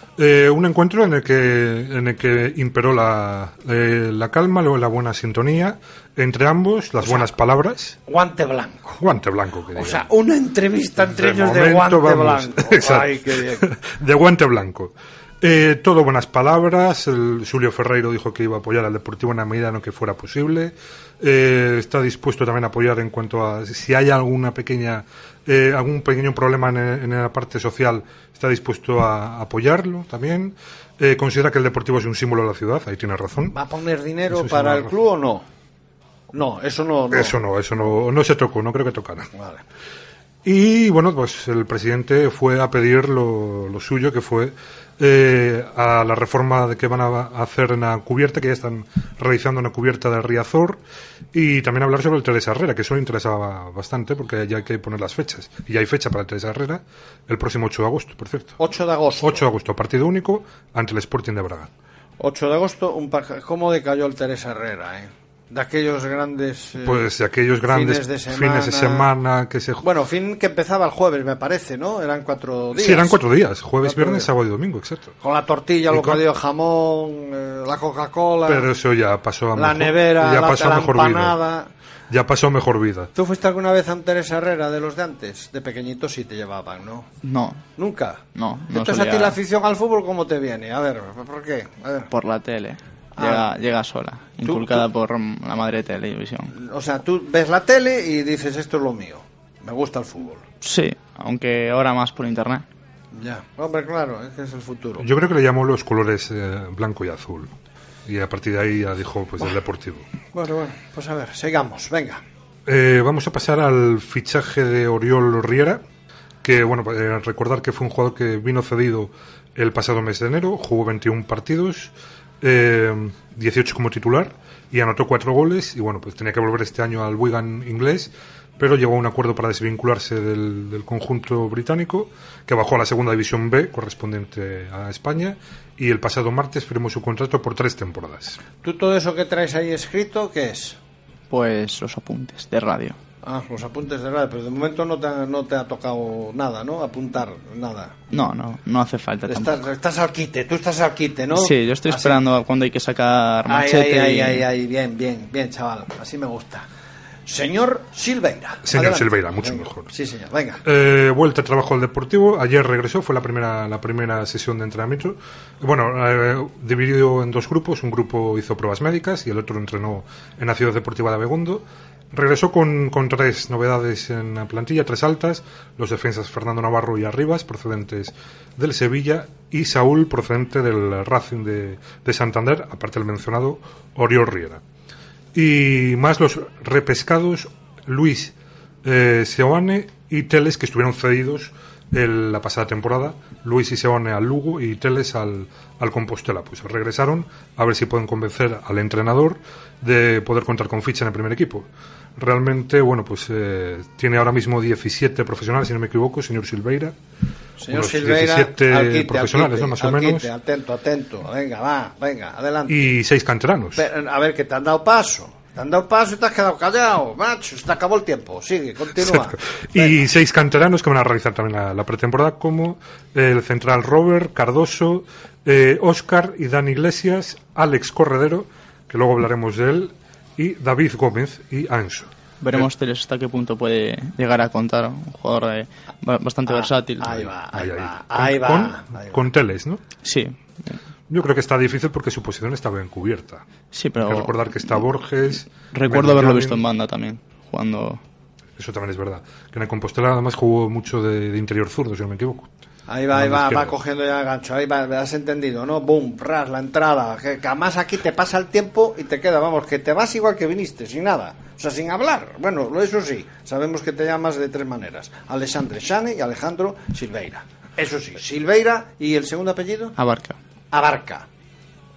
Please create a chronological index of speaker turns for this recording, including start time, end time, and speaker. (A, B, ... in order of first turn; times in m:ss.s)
0:00.2-0:08.0 A
0:07.0-0:07.3 B
0:08.1-0:09.0 B
0:09.0-0:10.1 A
0:09.8-0:13.7 B
0:11.0-0:33.6 A
0:33.5-0:35.5 B
0:34.3-0:35.0 A
0:36.3-0:37.4 B
0:37.1-0:39.3 A
0:39.3-0:39.6 B
0:40.4-0:50.8 A
0:51.3-0:58.6 A
0:58.6-0:59.5 B
0:59.2-1:01.7 A
1:02.2-1:07.1 B
1:06.8-1:09.9 A
1:07.7-1:09.1 B
1:09.8-1:13.2 B
1:12.7-1:15.2 A
1:13.8-1:14.3 B
1:15.2-1:18.7 B
1:15.9-1:16.2 A
1:18.5-1:21.4 A
1:19.6-1:21.7 B
1:22.1-1:23.1 A
1:23.2-1:27.1 B
1:27.2-1:27.7 C
1:27.8-1:32.1 B
1:28.3-1:29.4 C
1:32.1-1:36.5 C
1:33.2-1:33.5 B
1:34.4-1:34.8 B
1:36.5-1:40.4 B
1:40.6-1:42.6 C
1:43.1-1:45.1 B
1:45.0-1:47.5 A
1:48.1-1:50.1 A
1:50.3-1:52.2 B
1:52.7-1:55.8 A
1:56.4-2:18.4 A
2:18.6-2:20.8 B
2:21.3-2:23.0 C
2:23.2-2:28.0 B
2:28.1-2:29.6 C
2:29.3-2:32.2 B
2:31.3-2:34.5 C
2:33.5-2:36.7 B
2:37.3-2:40.6 B
2:38.7-2:39.9 A
2:40.6-3:04.6 A
3:05.3-3:27.0 A
3:27.6-3:32.9 B
3:27.7-3:30.3 A
3:32.7-3:33.8 A
3:33.8-3:40.0 B
3:39.0-3:52.7 A
3:52.4-3:57.3 C
3:56.5-3:59.2 B
3:57.5-3:59.8 A
4:00.0-4:00.8 C
4:01.1-4:03.4 A
4:03.7-4:04.8 C
4:04.0-4:06.6 A
4:05.7-4:08.0 C
4:08.6-4:12.6 A
4:12.9-4:30.0 B
4:13.1-4:13.8 A
4:30.0-4:30.4 C
4:30.7-4:31.3 B